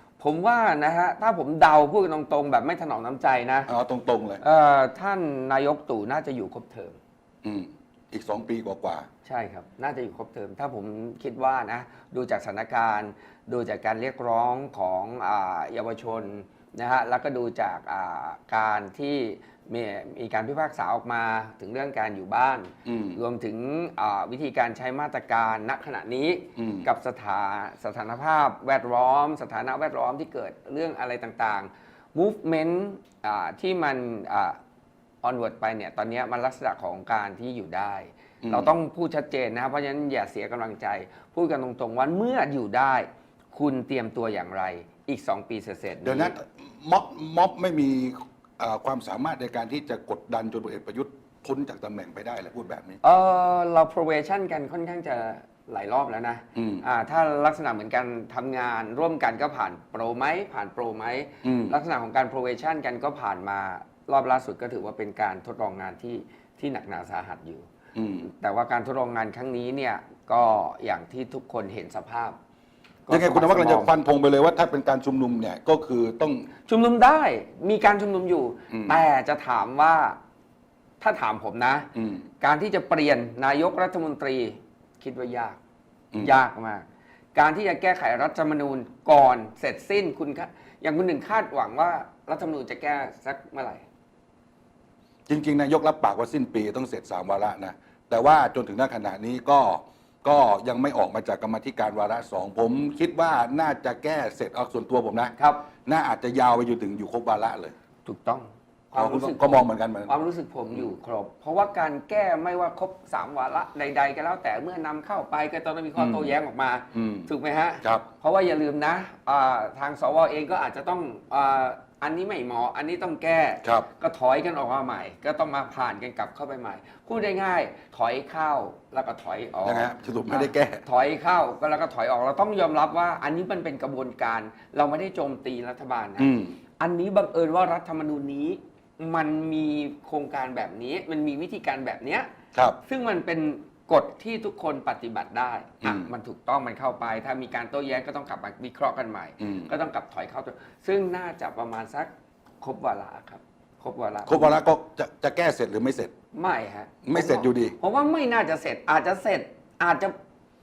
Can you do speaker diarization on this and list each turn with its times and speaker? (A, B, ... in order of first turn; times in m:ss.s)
0:00.2-0:03.7 A
0:03.7-0:04.4 B
0:04.4-0:07.0 A
0:07.4-0:09.1 B
0:09.2-0:34.6 A
0:22.9-0:23.2 B
0:26.6-0:26.9 B
0:35.2-0:46.4 A
0:38.4-0:38.7 B
0:46.0-0:53.0 B
0:53.0-1:07.7 A
0:56.6-0:56.8 B
1:01.4-1:01.8 B
1:08.0-1:08.3 B
1:08.2-1:12.4 A
1:13.1-1:13.9 A
1:13.1-1:16.5 B
1:16.7-1:20.2 A
1:18.7-1:19.0 B
1:21.0-1:21.9 A
1:22.0-1:22.3 B
1:22.4-1:25.6 A
1:26.2-1:33.8 A
1:35.3-1:45.3 B
1:45.4-1:45.6 A
1:45.9-1:47.7 B
1:48.0-2:22.3 A
1:49.0-1:50.1 B
1:56.0-1:56.3 B
1:56.9-1:57.3 B
2:09.6-2:10.8 B
2:16.2-2:16.5 B
2:22.8-2:32.1 A
2:25.8-2:26.1 B
2:29.4-2:29.7 B
2:32.6-2:34.6 A
2:34.3-2:36.1 B
2:36.3-2:40.2 A
2:37.0-2:37.8 B